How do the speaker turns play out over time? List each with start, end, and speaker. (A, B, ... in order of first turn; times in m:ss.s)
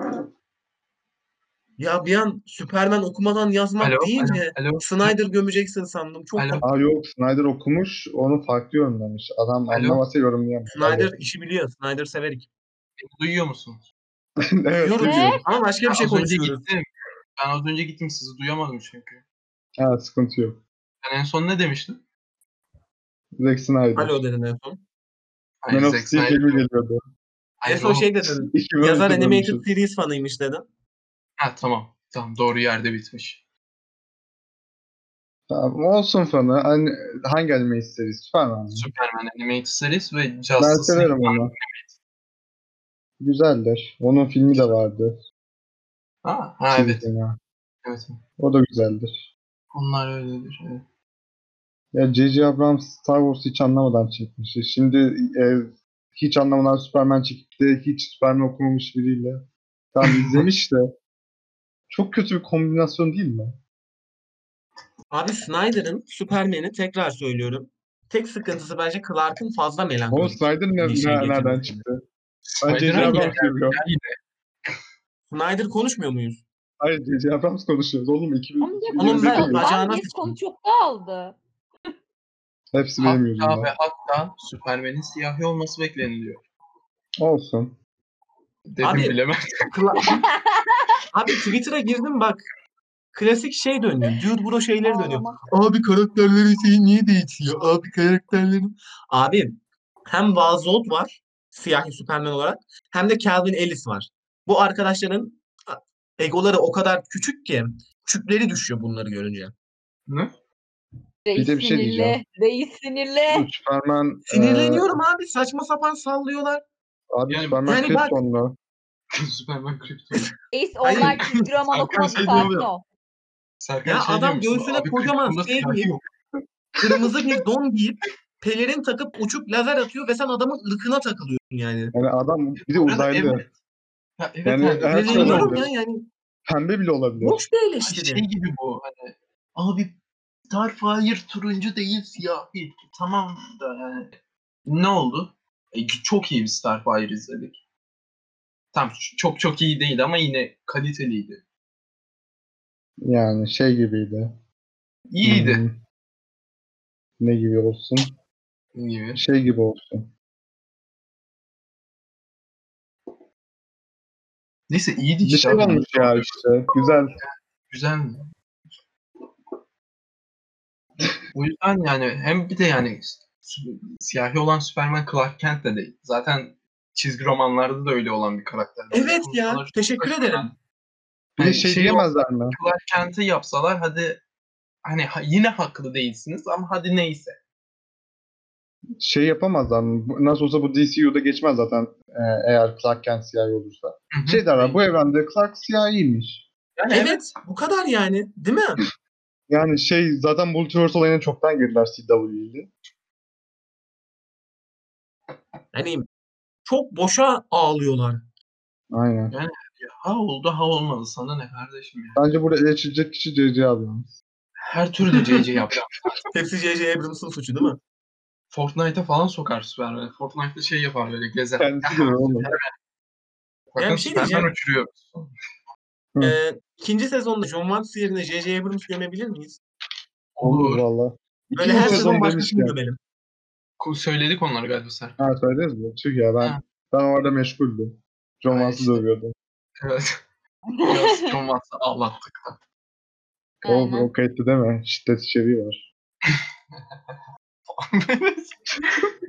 0:01.8-0:06.6 A
0:03.8-0:05.1 B
0:06.4-0:06.6 B
0:06.6-0:11.2 C
0:09.7-0:10.0 B
0:10.7-0:12.5 A
0:13.0-0:13.8 B
0:14.6-0:15.4 C
0:14.8-0:16.6 A
0:15.0-0:15.4 D
0:15.8-0:19.2 B
0:19.8-0:20.6 C
0:21.0-0:22.0 B
0:23.4-0:24.2 C
0:23.9-0:24.8 A
0:25.6-0:26.6 B
0:25.7-0:27.0 C
0:27.6-0:28.1 B
0:27.6-0:30.6 A
0:28.5-0:29.6 C
0:31.4-0:33.4 B
0:35.5-0:38.9 C
0:38.7-0:41.9 B
0:40.6-0:41.5 C
0:43.2-0:45.2 C
0:46.2-0:47.1 B
0:46.7-0:47.4 C
0:47.8-0:48.2 B
0:48.4-0:49.3 C
0:49.7-0:50.8 B
0:51.9-1:00.9 C
1:00.0-1:00.4 B
1:01.9-1:03.6 C
1:05.1-1:11.8 A
1:10.1-1:12.0 C
1:12.5-1:14.2 B
1:12.6-1:13.8 C
1:12.9-1:13.4 A
1:15.3-1:16.4 A
1:16.8-1:19.7 C
1:18.6-1:21.4 D
1:19.0-1:20.4 A
1:22.7-1:23.7 C
1:23.0-1:26.4 B
1:27.2-1:27.8 C
1:28.7-1:29.7 B
1:28.8-1:29.2 A
1:29.7-1:30.2 A
1:30.0-1:31.0 D
1:31.1-1:32.4 A
1:33.1-1:49.5 A
1:34.8-1:35.4 D
1:51.3-1:53.5 D
1:51.4-1:52.2 C
1:53.3-1:55.0 C
1:54.3-1:56.6 A
1:57.1-1:58.6 C
1:57.3-1:57.9 B
1:57.6-1:58.2 A
1:59.1-2:00.3 B
2:00.5-2:02.8 D
2:00.8-2:01.2 A
2:01.0-2:02.6 B
2:02.3-2:02.6 C
2:03.6-2:06.0 B
2:03.8-2:05.9 A
2:06.8-2:11.9 A
2:11.9-2:13.4 C
2:12.6-2:13.5 B
2:14.2-2:15.6 B
2:14.4-2:15.7 C
2:14.9-2:16.1 A
2:16.4-2:17.4 C
2:17.2-2:18.2 A
2:17.8-2:19.9 B
2:20.5-2:24.1 B
2:24.6-2:27.6 B
2:28.7-2:31.4 B
2:33.0-2:34.4 C
2:35.1-2:35.6 B
2:35.2-2:35.8 C
2:37.2-2:38.1 C
2:38.8-2:39.2 B
2:39.1-2:40.1 C
2:44.7-2:46.4 B
2:45.2-2:47.2 C
2:47.2-2:48.3 B
2:51.3-3:00.6 B
2:58.9-3:00.4 A
3:01.4-3:02.6 C
3:01.4-3:04.2 B
3:04.8-3:07.4 B
3:09.0-3:16.5 C
3:14.1-3:14.8 B
3:16.8-3:17.3 B
3:16.9-3:18.8 A
3:19.5-3:22.7 C
3:25.7-3:26.1 A
3:26.6-3:28.2 A
3:28.9-3:29.4 C
3:29.3-3:32.2 B
3:32.2-3:34.2 C
3:34.6-3:36.2 B
3:36.3-3:37.8 A
3:38.5-3:42.7 B
3:41.6-3:42.5 C
3:43.7-3:45.3 B
3:43.8-3:44.5 A
3:46.2-3:49.6 A
3:50.4-3:50.8 B
3:50.4-3:52.8 C
3:51.6-3:52.1 B
3:51.6-3:53.0 A
3:53.8-3:55.2 B
3:55.2-3:59.3 C
3:58.5-3:59.0 B
3:59.8-4:00.2 B
4:00.8-4:01.3 D
4:00.8-4:02.6 B
4:03.6-4:04.1 D
4:03.6-4:05.8 C
4:06.3-4:07.1 B
4:07.7-4:09.1 B